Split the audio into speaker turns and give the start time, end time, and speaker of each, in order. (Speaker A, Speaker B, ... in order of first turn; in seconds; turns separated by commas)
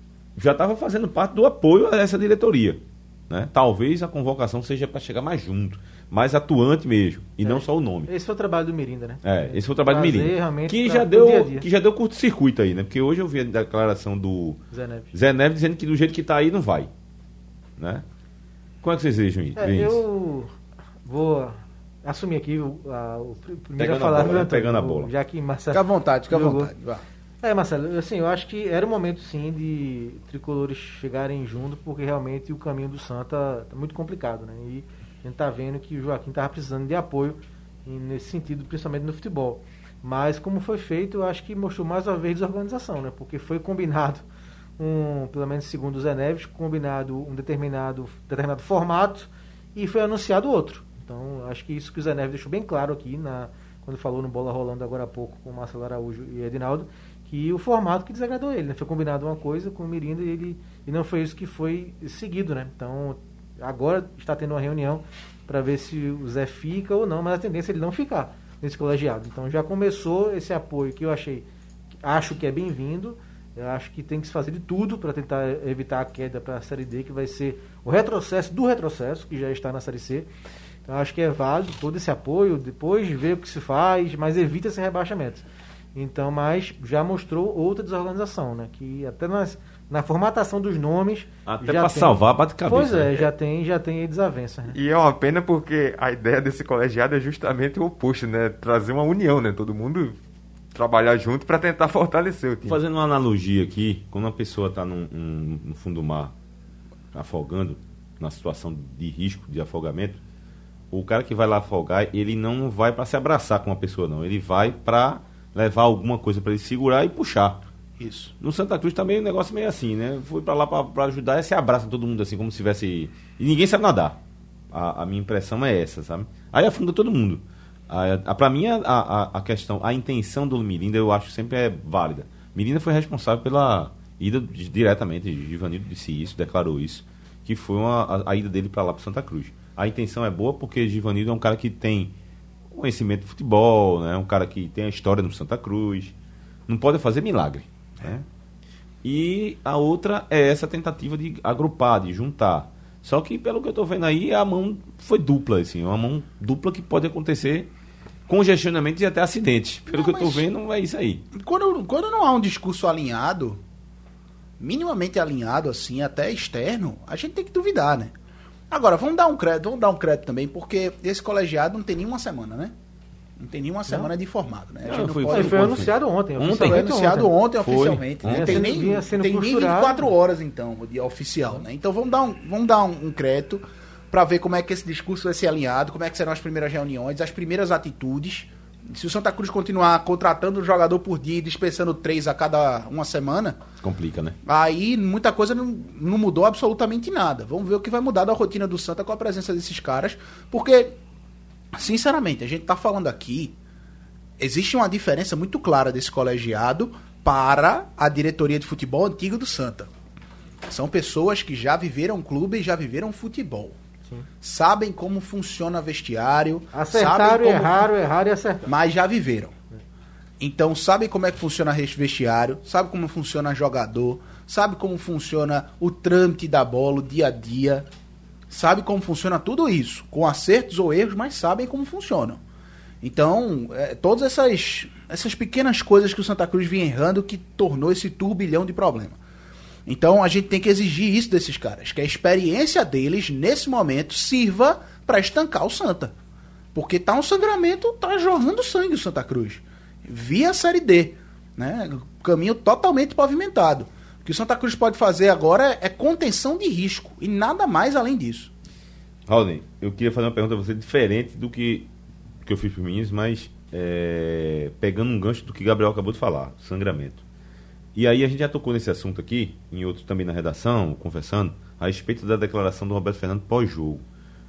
Speaker A: 0.3-8.1, Speaker B: 7.4-11.7, Speaker A: 9.2-14.6, Speaker B: 14.7-15.1, Speaker A: 15.1-16.9, Speaker A: 17.8-18.0, Speaker A: 18.8-20.0, Speaker B: 19.6-20.5, Speaker B: 21.0-26.7, Speaker A: 23.8-25.1, Speaker C: 25.7-27.0, Speaker B: 27.4-44.2, Speaker B: 44.8-71.5, Speaker B: 72.0-80.3, Speaker B: 80.9-94.8, Speaker A: 91.5-93.2, Speaker D: 94.7-100.2, Speaker D: 100.7-102.8, Speaker A: 102.6-106.3, Speaker A: 107.1-110.2, Speaker A: 110.9-117.6, Speaker C: 118.0-118.3, Speaker A: 118.4-124.2, Speaker A: 124.7-142.1, Speaker A: 142.7-146.1, Speaker A: 146.7-148.2, Speaker A: 149.0-157.7, Speaker A: 158.3-161.2, Speaker C: 159.9-160.4, Speaker C: 161.3-163.6, Speaker C: 164.6-168.1, Speaker C: 168.7-172.7, Speaker C: 173.4-175.7, Speaker A: 174.8-176.9, Speaker B: 175.3-177.3, Speaker C: 176.5-193.6, Speaker A: 177.6-178.8, Speaker B: 178.2-180.1, Speaker A: 193.8-194.4, Speaker C: 194.4-200.9, Speaker C: 201.7-203.5, Speaker C: 204.4-209.9, Speaker C: 210.7-213.8, Speaker C: 214.4-217.9, Speaker B: 216.7-218.7, Speaker C: 218.7-219.5, Speaker C: 220.4-227.9, Speaker C: 228.5-232.4, Speaker C: 233.0-239.2, Speaker C: 239.8-246.1, Speaker C: 246.7-258.5, Speaker A: 259.3-261.9, Speaker A: 262.4-267.2, Speaker A: 267.9-274.0